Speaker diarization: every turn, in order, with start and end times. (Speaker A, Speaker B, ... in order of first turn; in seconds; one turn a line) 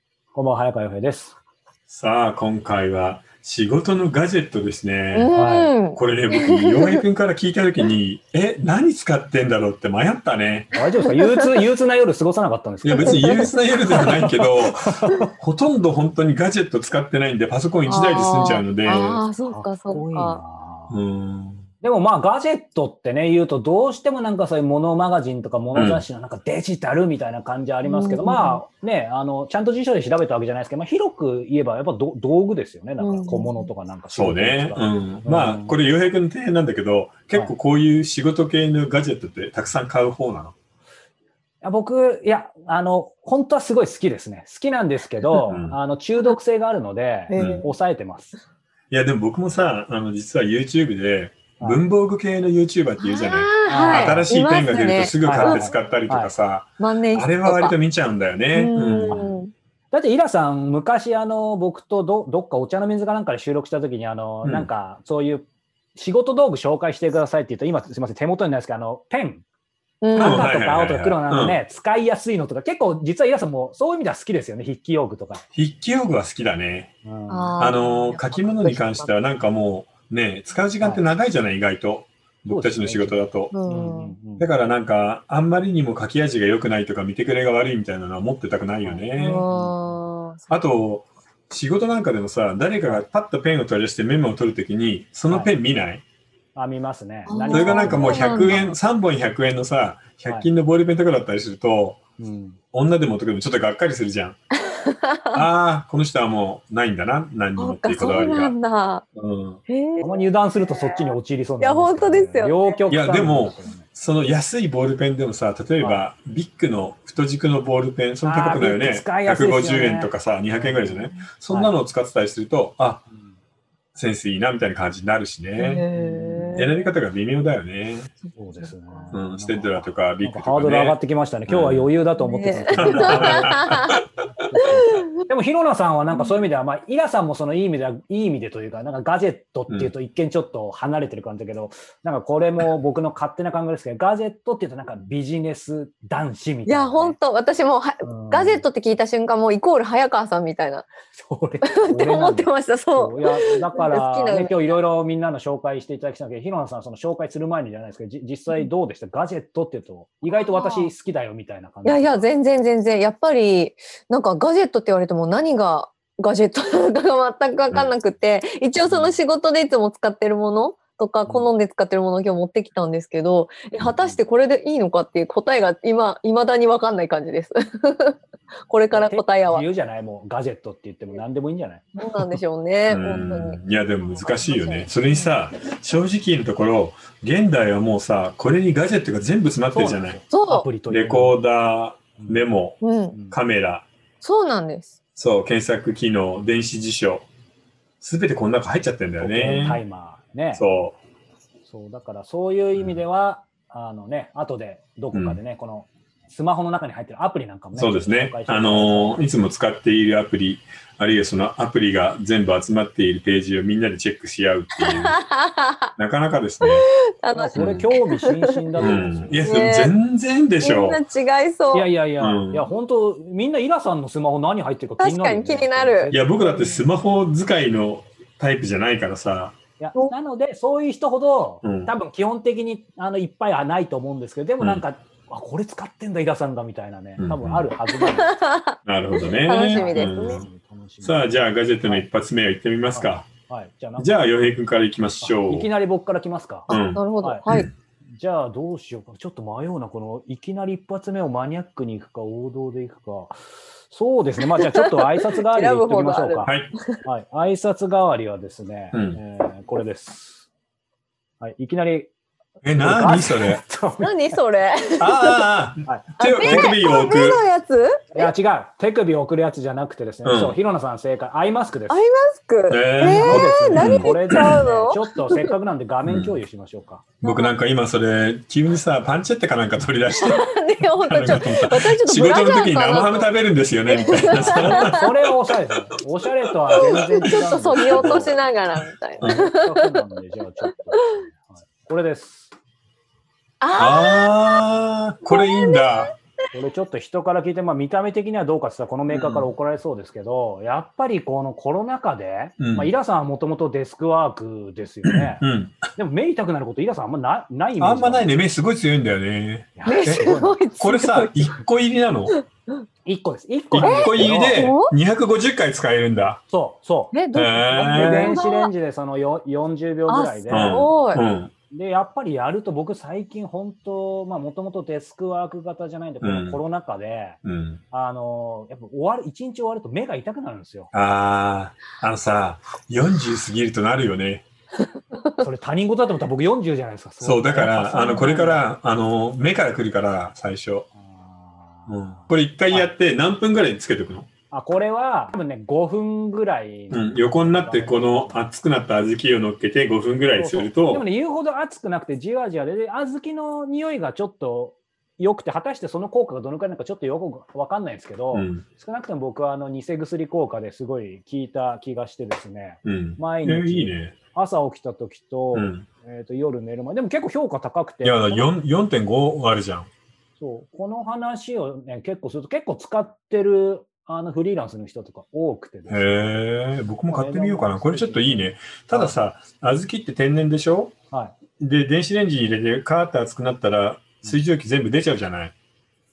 Speaker A: 0.3-1.4
Speaker B: 1.9-5.3
Speaker C: 5.1-7.0
Speaker A: 5.3-5.7
Speaker B: 6.0-10.7
Speaker A: 10.7-15.3
Speaker C: 11.2-11.5
Speaker B: 12.8-19.2
Speaker C: 13.0-13.5
Speaker C: 17.9-20.4
Speaker A: 19.5-21.0
Speaker B: 20.9-21.6
Speaker A: 21.8-35.8
Speaker B: 25.7-26.0
Speaker C: 27.9-28.6
Speaker C: 33.0-33.7
Speaker B: 34.1-40.5
Speaker A: 41.6-48.4
Speaker B: 45.5-45.8
Speaker C: 47.3-47.7
Speaker B: 47.4-47.6
Speaker B: 48.9-59.3
Speaker A: 51.6-51.9
Speaker C: 53.0-55.8
Speaker A: 53.6-54.3
Speaker A: 55.2-56.3
Speaker C: 56.8-57.7
Speaker C: 58.5-59.5
Speaker A: 59.1-59.4
Speaker A: 59.9-69.4
Speaker C: 70.0-70.5
Speaker A: 70.1-75.4
Speaker B: 70.2-71.6
Speaker B: 75.5-76.9
Speaker A: 77.0-77.6
Speaker C: 77.3-79.1
Speaker B: 77.6-83.5
Speaker A: 82.5-84.5
Speaker C: 83.5-84.2
Speaker B: 84.4-89.5
Speaker A: 88.8-90.0
Speaker C: 89.2-90.6
Speaker B: 90.5-96.0
Speaker A: 95.3-95.5
Speaker A: 96.5-98.8
Speaker C: 97.3-98.6
Speaker B: 97.5-102.0
Speaker A: 102.2-102.6
Speaker B: 102.7-104.4
Speaker C: 104.6-105.4
Speaker B: 105.3-108.5
Speaker C: 107.6-109.0
Speaker B: 109.2-109.6
Speaker C: 109.7-112.8
Speaker A: 110.0-113.9
Speaker B: 112.9-123.0
Speaker A: 115.8-116.0
Speaker A: 118.2-121.7
Speaker B: 124.0-125.9
Speaker C: 125.6-126.8
Speaker A: 126.0-126.7
Speaker B: 126.6-128.1
Speaker A: 128.3-133.7
Speaker C: 128.6-129.1
Speaker B: 129.1-131.9
Speaker C: 132.2-134.0
Speaker B: 132.7-134.0
Speaker A: 134.4-147.2
Speaker C: 134.6-135.1
Speaker C: 146.7-150.9
Speaker A: 148.0-148.6
Speaker A: 151.1-162.3
Speaker C: 151.6-154.8
Speaker C: 160.3-160.9
Speaker C: 161.8-178.2
Speaker A: 168.8-169.2
Speaker C: 178.7-179.7
Speaker A: 178.9-182.2
Speaker C: 182.0-184.9
Speaker B: 182.9-190.2
Speaker A: 189.7-191.4
Speaker C: 190.3-190.7
Speaker B: 190.9-193.9
Speaker A: 192.2-192.5
Speaker C: 192.8-193.2
Speaker A: 193.1-193.4
Speaker C: 194.2-194.9
Speaker B: 195.2-197.3
Speaker B: 198.0-199.8
Speaker A: 199.2-200.6
Speaker B: 200.6-201.0
Speaker A: 201.7-209.2
Speaker B: 202.8-203.0
Speaker B: 205.1-205.4
Speaker B: 207.8-215.2
Speaker C: 214.8-215.9
Speaker B: 216.0-216.9
Speaker C: 216.6-219.9
Speaker A: 217.3-219.5
Speaker B: 217.6-217.9
Speaker B: 218.8-221.0
Speaker C: 220.6-221.9
Speaker A: 221.7-226.8
Speaker B: 222.2-222.7
Speaker C: 225.0-226.1
Speaker B: 226.1-229.6
Speaker A: 229.8-238.4
Speaker B: 231.6-231.9
Speaker B: 237.2-237.7
Speaker C: 238.0-240.4
Speaker B: 238.9-240.4
Speaker A: 239.6-241.3
Speaker B: 241.0-243.3
Speaker A: 242.9-244.6
Speaker B: 244.0-245.7
Speaker A: 245.2-247.4
Speaker B: 246.7-247.7
Speaker C: 246.7-247.7
Speaker A: 248.1-260.5
Speaker C: 254.6-257.0
Speaker B: 256.4-256.7
Speaker B: 258.9-259.2
Speaker A: 261.4-262.1
Speaker B: 262.6-263.6
Speaker A: 262.8-264.4
Speaker C: 264.0-265.5
Speaker B: 265.0-267.4
Speaker A: 265.9-266.7
Speaker C: 266.2-268.3
Speaker A: 268.1-272.0
Speaker B: 270.2-270.6
Speaker C: 271.9-275.5
Speaker B: 272.7-274.7
Speaker A: 273.0-277.1
Speaker B: 276.1-276.4
Speaker B: 277.2-285.4
Speaker C: 277.2-277.5
Speaker C: 280.1-283.3
Speaker C: 283.9-285.0
Speaker A: 284.1-288.4
Speaker B: 286.5-288.3
Speaker C: 286.7-290.0
Speaker A: 289.2-292.5
Speaker C: 290.9-291.3
Speaker C: 293.6-294.6
Speaker B: 293.8-296.1
Speaker C: 295.3-296.1
Speaker A: 296.5-308.3
Speaker B: 299.1-299.5
Speaker B: 302.6-302.9
Speaker B: 305.0-305.9
Speaker B: 307.8-312.4
Speaker A: 309.8-310.6
Speaker C: 309.9-311.5
Speaker C: 312.4-312.8
Speaker A: 313.1-314.6
Speaker B: 313.7-316.4
Speaker C: 313.8-314.9
Speaker A: 316.5-317.2
Speaker C: 317.1-318.7
Speaker B: 317.3-318.4
Speaker A: 317.7-320.9
Speaker C: 320.1-321.2
Speaker B: 320.5-321.5
Speaker A: 321.7-327.4
Speaker B: 326.2-326.6
Speaker B: 327.4-327.8
Speaker A: 327.9-330.9
Speaker B: 330.9-334.4
Speaker A: 335.4-338.6
Speaker B: 337.2-340.9
Speaker A: 341.0-342.9
Speaker B: 341.9-344.3
Speaker A: 344.5-348.4
Speaker B: 346.9-351.0
Speaker A: 350.4-368.5
Speaker B: 358.3-358.6
Speaker B: 362.9-364.1
Speaker B: 365.5-365.9
Speaker B: 368.0-369.9
Speaker A: 370.4-376.4
Speaker B: 375.9-380.9
Speaker A: 377.1-379.2
Speaker B: 381.6-385.5